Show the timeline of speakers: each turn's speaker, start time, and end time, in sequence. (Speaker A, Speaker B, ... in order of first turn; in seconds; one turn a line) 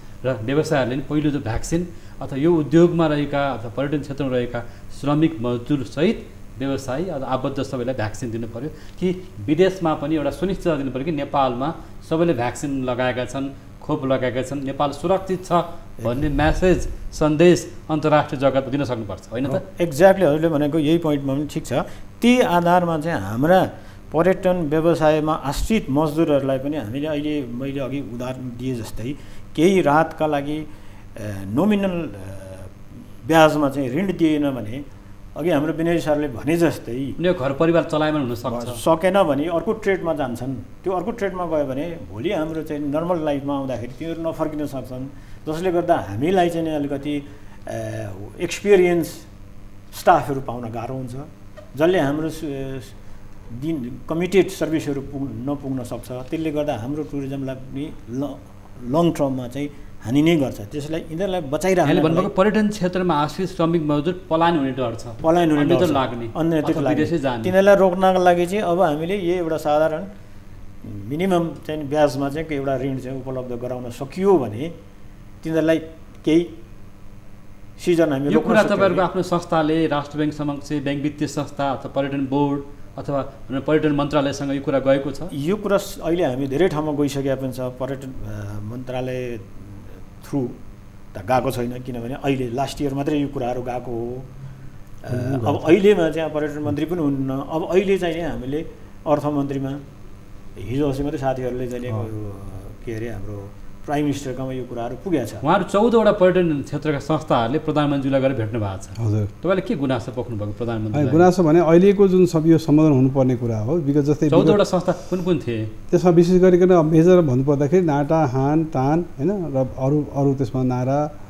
Speaker A: 0.2-19.6
Speaker B: 19.4-37.2
Speaker A: 37.2-38.8
Speaker B: 38.5-49.3
Speaker B: 49.9-52.9
Speaker B: 53.5-62.3
Speaker A: 61.8-67.5
Speaker B: 65.2-70.1
Speaker B: 70.8-74.7
Speaker B: 75.4-76.5
Speaker B: 77.8-79.0
Speaker A: 78.3-85.3
Speaker B: 85.3-90.6
Speaker B: 91.1-94.3
Speaker B: 95.0-99.8
Speaker C: 95.1-95.7
Speaker B: 100.6-105.4
Speaker A: 105.4-111.3
Speaker C: 109.0-109.3
Speaker C: 110.9-114.6
Speaker A: 114.3-115.7
Speaker C: 115.9-121.1